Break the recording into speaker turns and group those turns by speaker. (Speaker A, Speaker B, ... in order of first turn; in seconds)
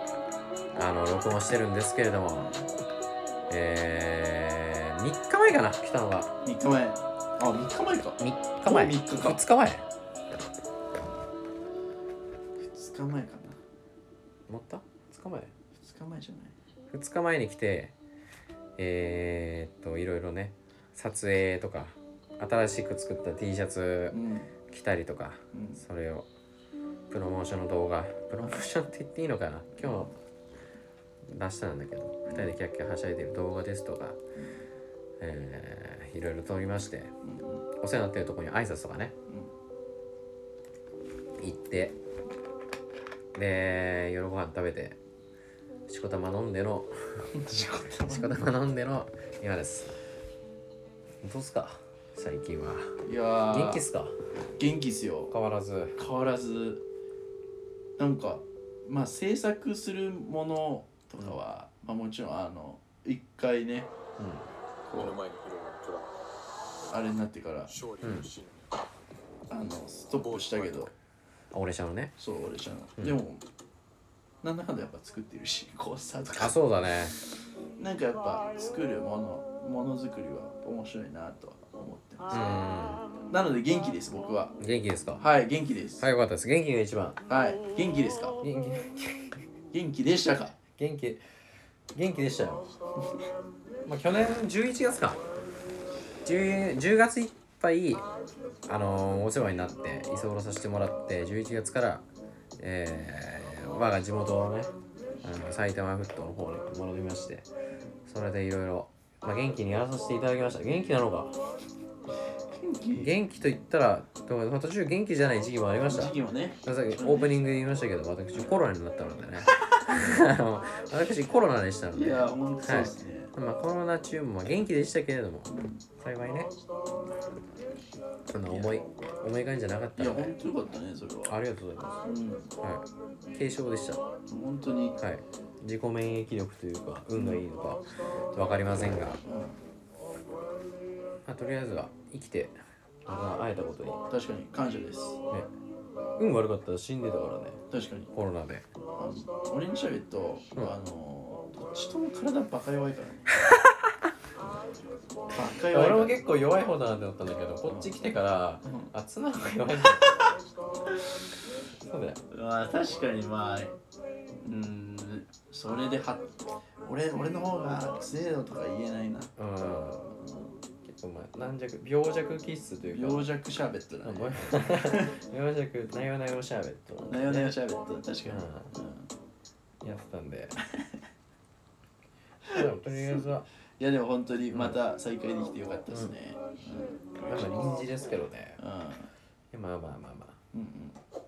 Speaker A: 0.8-2.5, 3.5-6.3, 8.2-9.9, 14.5-15.5, 16.9-17.9, 18.8-26.3, 27.1-30.2, 31.3-34.2, 35.2-37.1, 37.8-39.2, 41.4-42.0, 43.4-45.0, 45.9-50.0, 51.2-54.2, 55.3-56.0, 64.2-64.5, 68.0-68.3, 71.5-72.1, 76.3-77.2, 82.3-83.1, 84.6-85.2, 86.0-87.2, 88.4-89.4, 90.8-91.2, 91.9-92.7, 93.9-95.2, 96.2-98.0, 98.7-102.0, 102.6-107.5, 108.1-111.4, 112.9-126.5, 128.3-130.4, 131.3-132.1, 132.6-134.0, 135.0-139.2, 141.3-144.0, 146.2-148.7, 155.7-160.2, 161.8-162.2, 169.4-170.2, 170.8-173.2, 174.0-177.6, 178.2-178.7, 179.8-180.6, 182.5-183.5, 187.2-188.6, 189.5-190.4
Speaker B: 2.4-2.6, 6.4-9.4, 12.6-13.6, 15.8-16.6, 24.1-24.5, 25.5-25.8, 29.8-30.1, 32.3-32.5, 37.2-37.7, 47.3-48.5, 53.0-53.9, 54.6-55.3, 56.0-56.8, 58.0-63.9, 64.9-65.2, 66.9-67.8, 69.5-70.9, 72.2-73.4, 74.4-76.6, 77.8-82.5, 83.3-84.5, 85.2-86.0, 87.3-88.4, 89.7-90.6, 112.5-113.1, 115.9-117.4, 119.6-120.2, 121.9-123.3, 125.5-125.8, 128.5-128.9, 130.0-131.4, 132.0-132.5, 134.3-135.0, 137.2-137.4, 138.9-139.6, 144.1-145.2, 147.7-148.1, 149.0-153.3, 155.3-156.2, 157.7-157.9, 158.7-158.9, 160.1-160.3, 162.3-163.8, 164.4-166.3, 166.8-169.3, 170.2-170.5, 172.9-175.2, 177.1-179.1, 182.4-183.3, 183.8-187.5, 188.6-189.1, 190.5-191.0
Speaker C: 64.9-66.1, 67.7-68.7, 70.1-70.9